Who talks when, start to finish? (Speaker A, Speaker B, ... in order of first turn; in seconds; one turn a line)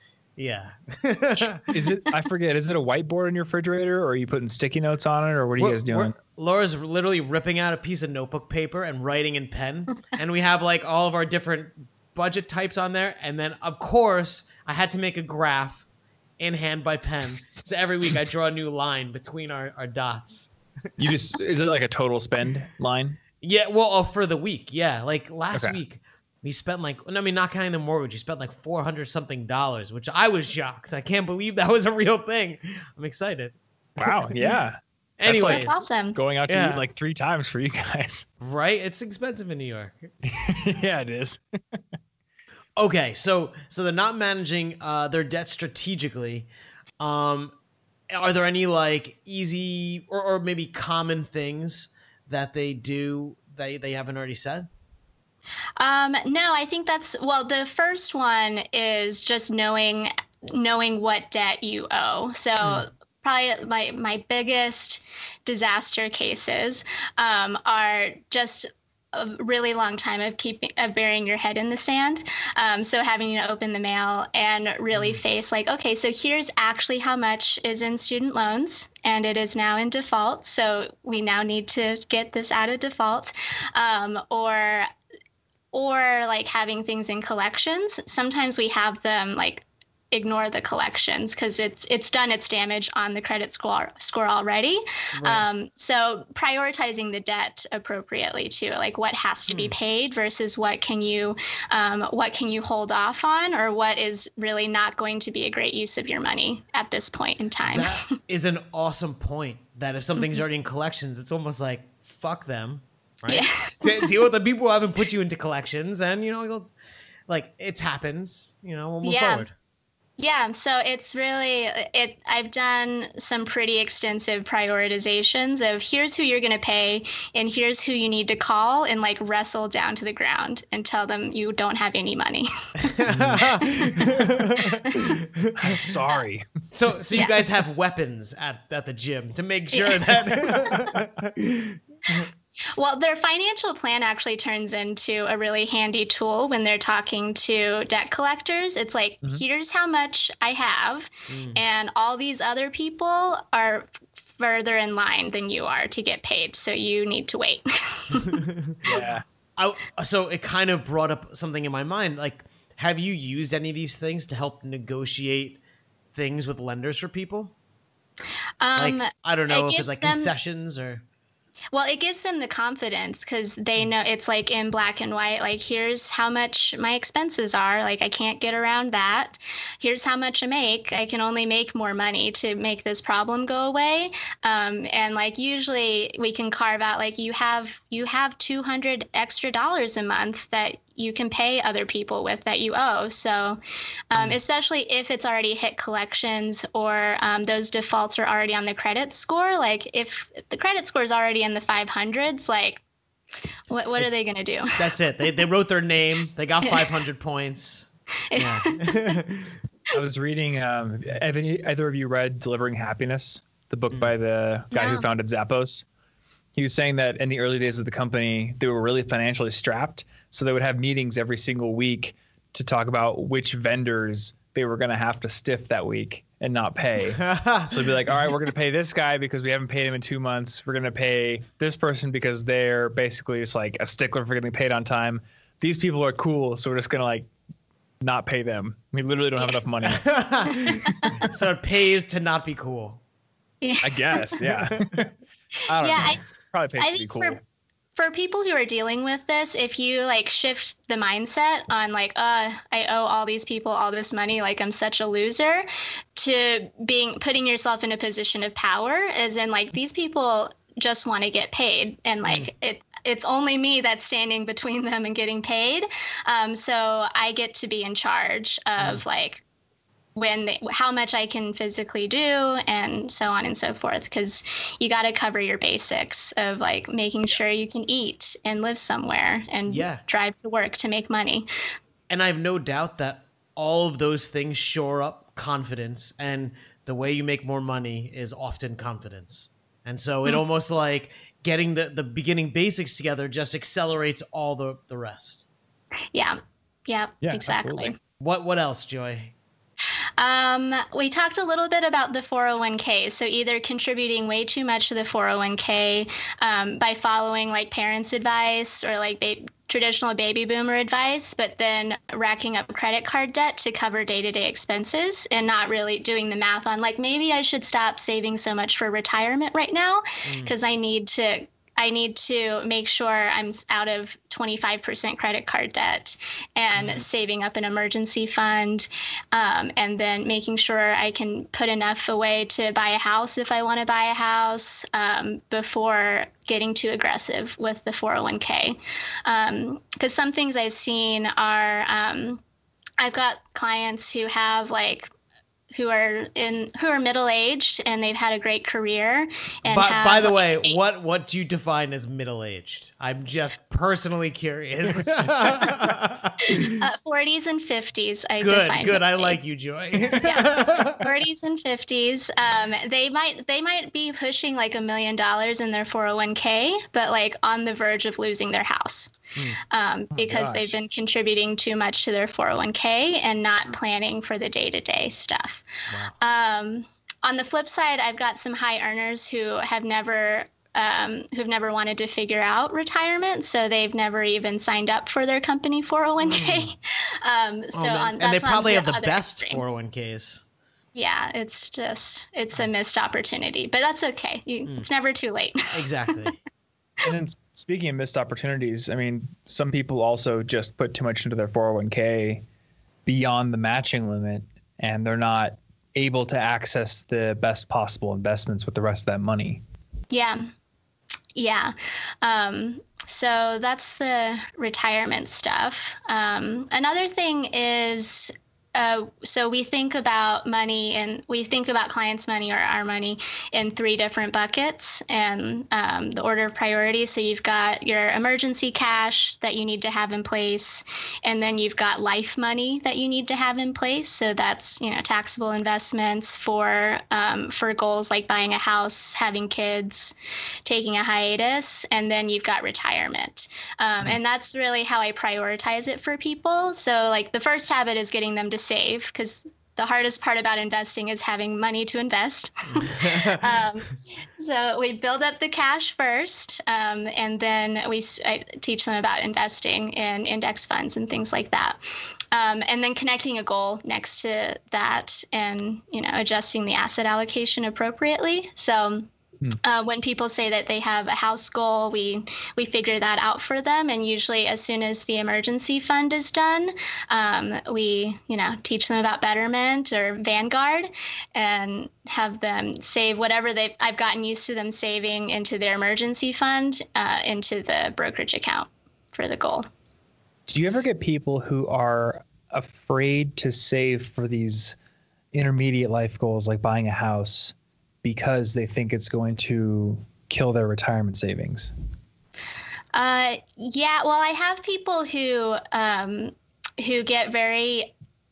Speaker A: 0.4-1.7
Speaker B: 1.7-6.2
Speaker A: 5.6-15.9
Speaker A: 16.4-20.5
Speaker B: 21.0-23.2
Speaker A: 23.4-34.6
Speaker B: 25.5-25.8
Speaker B: 34.0-38.3
Speaker A: 35.2-35.8
Speaker C: 35.5-36.2
Speaker A: 36.5-36.8
Speaker A: 38.4-40.1
Speaker B: 40.2-41.8
Speaker A: 42.8-46.5
Speaker A: 47.0-47.5
Speaker A: 48.1-54.7
Speaker C: 55.8-84.9
Speaker C: 85.7-108.1
Speaker A: 95.2-95.5
Speaker A: 99.5-99.8
Speaker A: 107.7-116.7
Speaker C: 113.3-114.1
Speaker A: 117.3-119.5
Speaker C: 119.0-119.5
Speaker C: 120.2-133.0
Speaker A: 132.8-135.9
Speaker B: 133.1-133.6
Speaker B: 135.6-136.4
Speaker A: 136.7-142.3
Speaker C: 137.1-137.4
Speaker C: 139.7-140.9
Speaker C: 142.7-158.4
Speaker A: 151.3-151.6
Speaker A: 158.2-158.8
Speaker B: 158.8-159.2
Speaker A: 159.6-165.6
Speaker A: 166.1-167.5
Speaker C: 168.6-170.3
Speaker A: 168.8-171.0
Speaker C: 171.7-193.6
Speaker C: 194.1-202.8
Speaker C: 203.7-204.9
Speaker A: 204.8-209.6
Speaker C: 206.6-207.0
Speaker C: 208.3-209.2
Speaker B: 209.9-215.8
Speaker C: 214.7-215.1
Speaker B: 216.6-237.3
Speaker A: 227.2-227.9
Speaker B: 238.0-240.1
Speaker A: 239.8-243.0
Speaker C: 240.7-241.1
Speaker B: 240.9-241.2
Speaker C: 243.6-244.3
Speaker B: 243.8-245.1
Speaker A: 244.4-245.1
Speaker B: 245.7-247.4
Speaker C: 245.8-246.2
Speaker C: 246.8-247.4
Speaker C: 248.0-269.4
Speaker C: 270.1-281.5
Speaker A: 279.7-280.0
Speaker A: 282.1-295.5
Speaker C: 296.1-298.0
Speaker B: 297.2-297.9
Speaker A: 298.2-299.3
Speaker C: 300.2-342.4
Speaker A: 320.2-320.6
Speaker A: 326.8-327.1
Speaker C: 343.0-345.1
Speaker C: 345.7-350.8
Speaker A: 349.7-356.8
Speaker C: 356.5-359.4
Speaker A: 358.4-361.1
Speaker C: 360.1-369.1
Speaker C: 369.7-375.7
Speaker B: 370.1-370.7
Speaker A: 375.9-376.1
Speaker C: 376.2-389.6
Speaker A: 386.2-386.7
Speaker A: 387.7-390.4
Speaker C: 390.9-396.1
Speaker A: 395.7-396.4
Speaker B: 397.0-402.4
Speaker B: 403.1-409.6
Speaker C: 410.1-410.5
Speaker C: 411.4-440.1
Speaker C: 440.6-469.1
Speaker A: 452.7-453.6
Speaker C: 469.6-489.7
Speaker B: 490.5-494.8
Speaker B: 495.3-501.7
Speaker C: 502.9-507.9